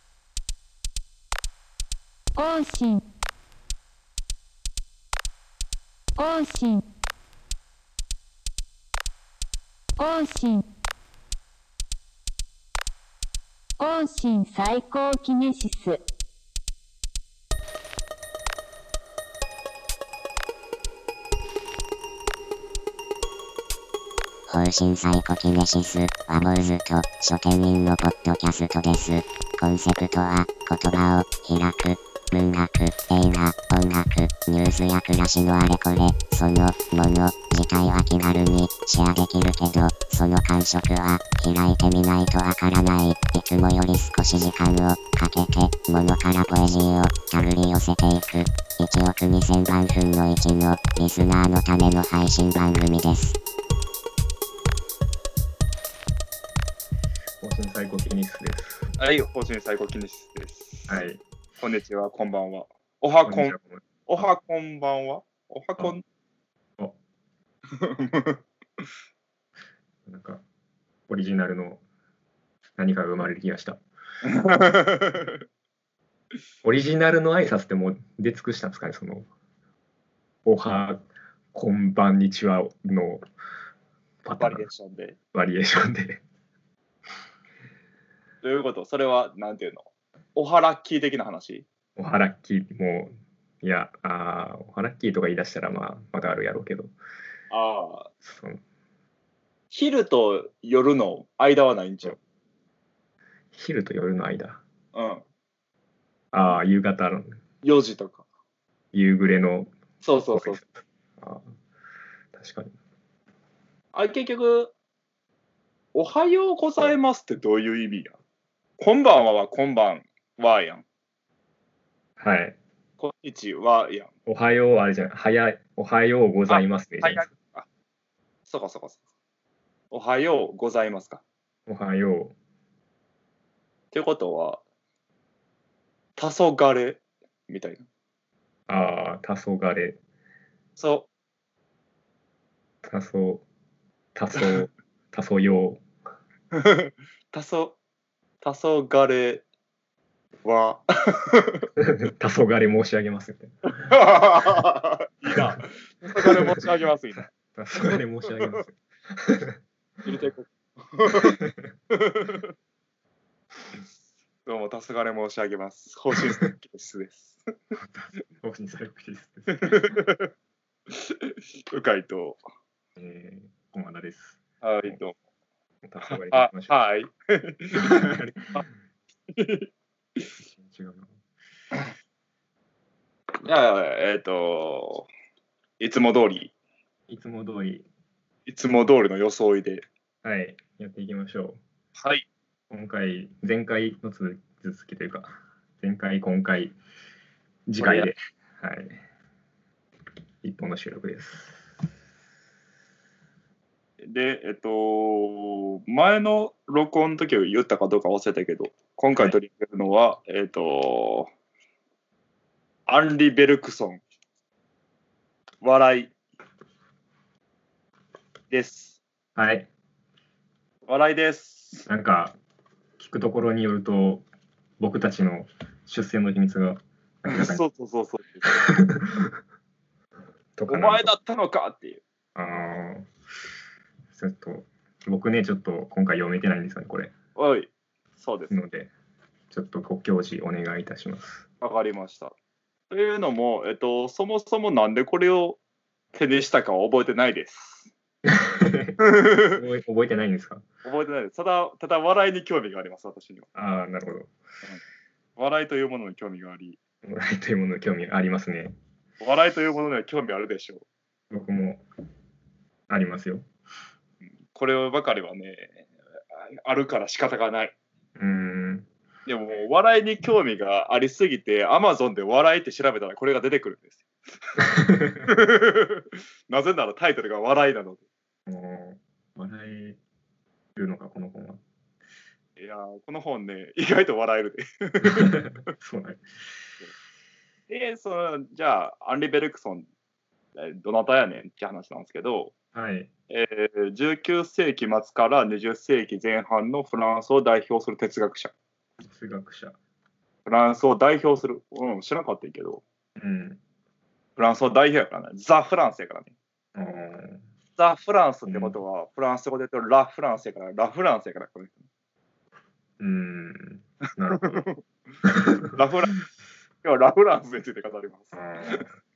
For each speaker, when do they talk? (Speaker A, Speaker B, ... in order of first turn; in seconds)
Speaker A: 2.4-3.0, 6.2-6.8, 10.0-10.6, 13.8-16.0
Speaker B: 24.5-53.4
Speaker C: 57.4-58.9, 60.9-61.2, 63.2-64.2, 70.0-70.4, 71.1-71.8, 72.8-73.8, 76.6-79.3, 80.4-83.2, 84.2-84.6, 85.3-86.2, 92.0-96.9, 98.2-98.6, 103.5-104.6, 106.3-107.4, 108.9-109.7, 110.3-111.5, 112.3-112.7, 122.2-122.6, 124.3-127.2, 131.7-132.3, 138.7-140.0, 142.8-143.4, 144.1-145.8, 151.8-153.9, 157.5-159.6, 161.4-161.7, 167.8-169.9, 172.9-175.0, 175.8-176.8, 177.8-178.6, 180.5-181.1, 187.1-187.8, 190.2-191.6, 192.7-196.8, 197.7-199.0, 200.4-201.6, 219.3-219.7, 221.9-222.3, 223.0-224.2, 224.8-227.6, 228.4-229.3, 230.5-231.1, 232.3-233.1, 234.1-237.1, 238.5-238.9, 239.5-241.4, 248.3-250.6, 253.5-254.3, 257.0-258.8, 261.3-261.8, 262.9-263.4, 268.1-268.9, 274.6-275.2, 278.5-280.0, 280.8-281.6, 285.0-286.4, 292.7-293.1, 299.1-299.8, 303.2-303.6, 306.7-307.4, 308.5-308.8, 313.0-314.6, 315.2-315.7, 318.3-318.9
Speaker D: 59.0-61.0, 61.6-66.0, 67.8-68.4, 74.2-75.4, 84.3-85.2, 88.4-91.7, 97.5-98.1, 99.7-102.2, 104.9-105.2, 107.6-108.2, 110.0-110.6, 113.9-114.7, 115.9-118.2, 118.8-120.8, 123.0-124.1, 126.5-127.7, 128.5-129.0, 129.9-131.2, 133.9-134.6, 136.2-137.8, 140.8-141.1, 146.5-147.8, 148.4-149.4, 150.4-151.6, 153.7-157.3, 160.1-161.4, 161.9-162.5, 164.4-167.4, 169.5-170.3, 170.9-172.4, 174.6-175.2, 176.1-178.6, 179.3-179.7, 183.4-185.1, 185.8-186.5, 188.5-189.8, 192.0-192.2, 197.8-198.1, 204.0-211.3, 212.9-214.0, 215.6-216.1, 218.5-219.0, 220.9-221.9, 227.3-228.6, 230.7-232.0, 237.3-238.5, 241.6-242.3, 242.9-245.6, 246.1-247.9, 249.0-249.6, 250.8-253.5, 255.4-256.8, 259.2-260.8, 264.5-265.8, 266.6-267.7, 269.2-274.0, 275.3-278.0, 282.6-285.4, 287.7-289.9, 290.6-292.5, 293.3-298.5, 300.4-302.8, 304.4-306.3, 307.8-311.8, 314.4-314.8, 315.7-316.2, 316.8-318.8